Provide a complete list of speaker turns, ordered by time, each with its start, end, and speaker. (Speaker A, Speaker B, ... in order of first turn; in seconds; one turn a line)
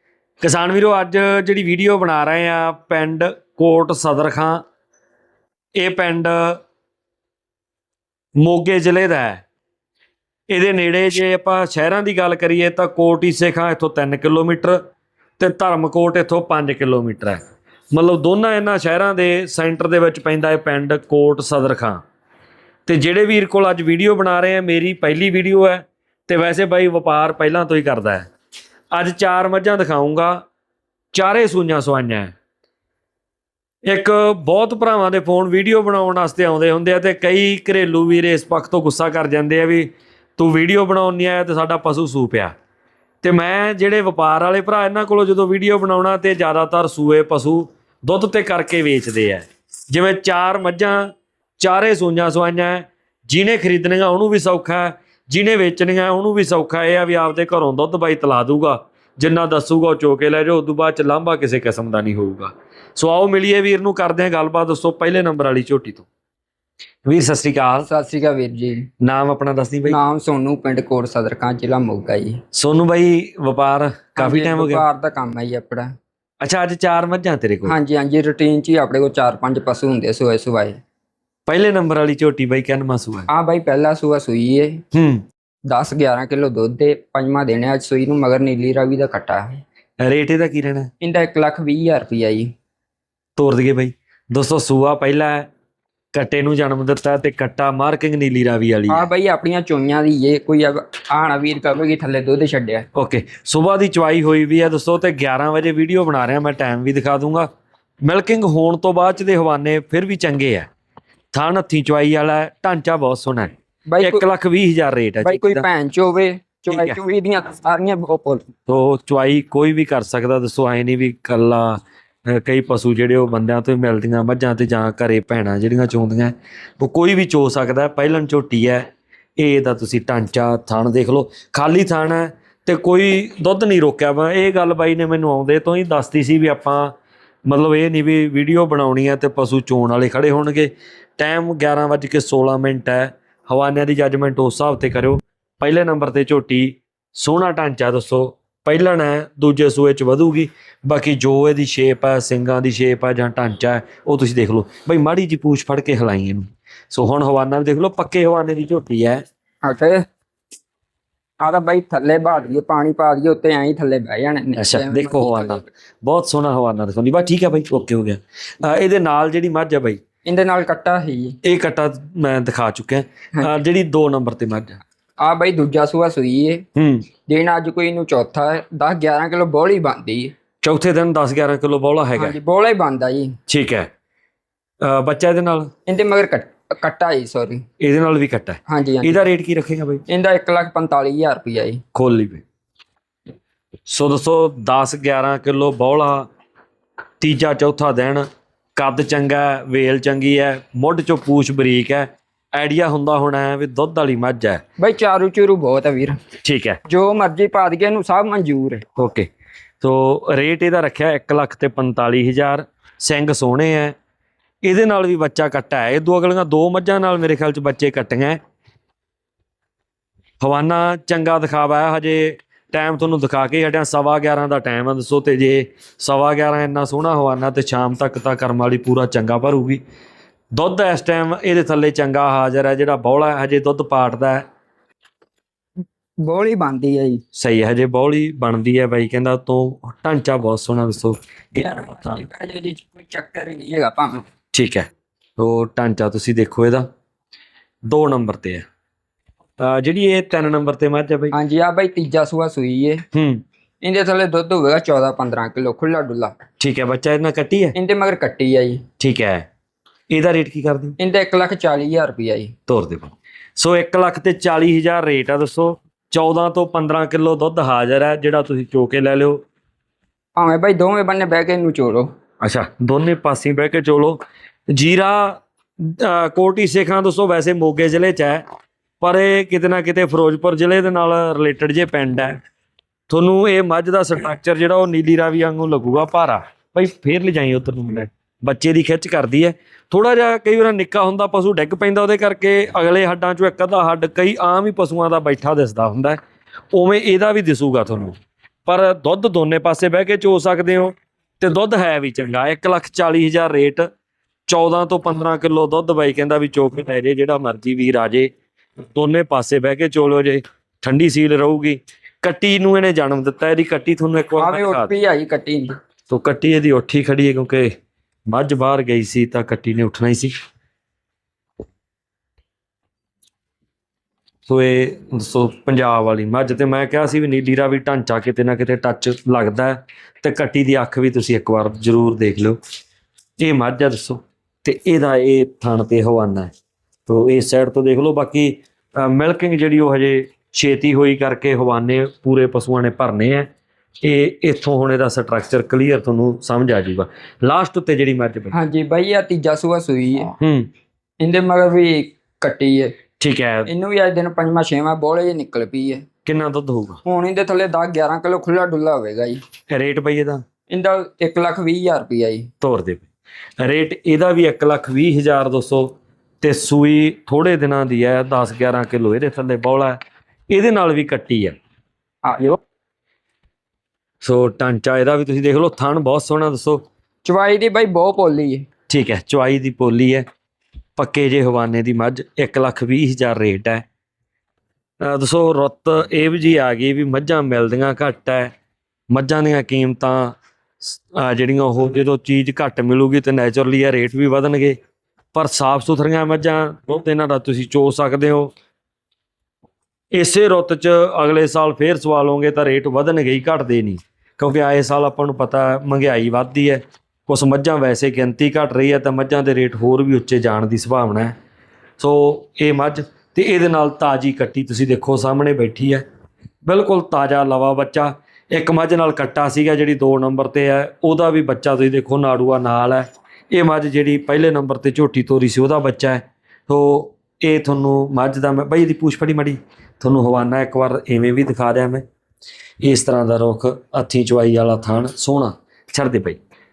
Speaker A: 0.4-4.6
Speaker A: 5.8-6.6
Speaker A: 8.4-9.4
Speaker A: 10.5-14.8
Speaker A: 15.4-17.4
Speaker A: 17.9-22.0
Speaker A: 22.9-28.3
Speaker A: 28.9-30.4
Speaker A: 31.1-32.3
Speaker A: 33.9-42.5
Speaker A: 43.2-66.1
Speaker A: 67.0-67.9
Speaker B: 67.9-68.9
Speaker A: 69.0-70.0
Speaker B: 69.9-72.4
Speaker A: 72.5-74.8
Speaker B: 74.2-75.9
Speaker A: 76.4-77.7
Speaker B: 77.7-80.8
Speaker A: 81.5-83.3
Speaker B: 83.3-84.8
Speaker A: 84.9-85.2
Speaker B: 85.7-89.6
Speaker A: 90.0-90.9
Speaker B: 91.0-92.5
Speaker A: 93.3-95.5
Speaker A: 96.1-99.1
Speaker B: 98.9-102.9
Speaker A: 102.9-107.5
Speaker A: 108.0-110.7
Speaker A: 111.3-115.6
Speaker B: 113.9-114.2
Speaker B: 115.2-118.5
Speaker A: 116.7-117.0
Speaker A: 118.7-128.8
Speaker A: 129.4-136.9
Speaker A: 137.5-159.2
Speaker B: 159.6-160.0
Speaker B: 161.4-165.7
Speaker A: 164.6-170.0
Speaker B: 170.2-171.4
Speaker A: 171.4-174.8
Speaker B: 175.2-176.6
Speaker A: 176.7-177.1
Speaker B: 177.3-180.3
Speaker A: 180.6-182.3
Speaker B: 182.2-183.4
Speaker A: 183.5-183.9
Speaker A: 184.8-185.7
Speaker B: 185.9-187.6
Speaker A: 187.8-190.0
Speaker B: 188.7-189.2
Speaker B: 190.1-191.8
Speaker A: 191.9-192.4
Speaker A: 193.9-196.3
Speaker A: 197.2-204.6
Speaker B: 204.8-206.2
Speaker A: 206.4-206.8
Speaker B: 206.8-208.8
Speaker A: 209.0-209.3
Speaker A: 209.8-213.9
Speaker A: 214.6-218.4
Speaker A: 220.4-229.8
Speaker A: 230.5-234.4
Speaker B: 236.2-237.2
Speaker A: 237.3-242.2
Speaker B: 241.6-244.2
Speaker A: 244.5-244.9
Speaker A: 245.4-246.9
Speaker A: 247.8-248.6
Speaker A: 249.6-251.3
Speaker B: 251.3-253.0
Speaker A: 253.1-253.4
Speaker B: 253.8-256.3
Speaker A: 256.6-257.7
Speaker B: 257.7-258.8
Speaker A: 259.0-259.4
Speaker A: 260.1-260.9
Speaker B: 261.0-262.5
Speaker A: 262.7-269.4
Speaker B: 270.4-272.1
Speaker A: 272.4-274.2
Speaker A: 274.7-278.4
Speaker A: 279.0-282.4
Speaker A: 283.1-296.2
Speaker A: 296.7-303.9
Speaker A: 304.5-308.3
Speaker A: 308.9-314.9
Speaker B: 314.4-315.8
Speaker A: 316.1-317.7
Speaker A: 318.3-320.3
Speaker A: 324.5-332.6
Speaker A: 333.4-336.5
Speaker A: 337.1-343.5
Speaker A: 344.0-348.5
Speaker B: 348.5-350.3
Speaker A: 350.4-350.7
Speaker B: 351.2-352.9
Speaker A: 353.2-353.7
Speaker B: 353.6-356.0
Speaker A: 356.2-357.0
Speaker B: 357.0-359.4
Speaker A: 359.7-360.4
Speaker B: 360.7-362.5
Speaker A: 362.6-363.1
Speaker A: 363.6-370.0
Speaker A: 370.5-371.6
Speaker B: 372.2-372.6
Speaker A: 374.2-376.9
Speaker B: 377.2-378.7
Speaker A: 378.9-380.2
Speaker A: 381.0-383.8
Speaker A: 385.0-388.5
Speaker A: 389.1-394.8
Speaker A: 395.3-398.5
Speaker A: 400.1-411.3
Speaker A: 412.0-416.0
Speaker A: 416.6-432.0
Speaker A: 432.8-436.4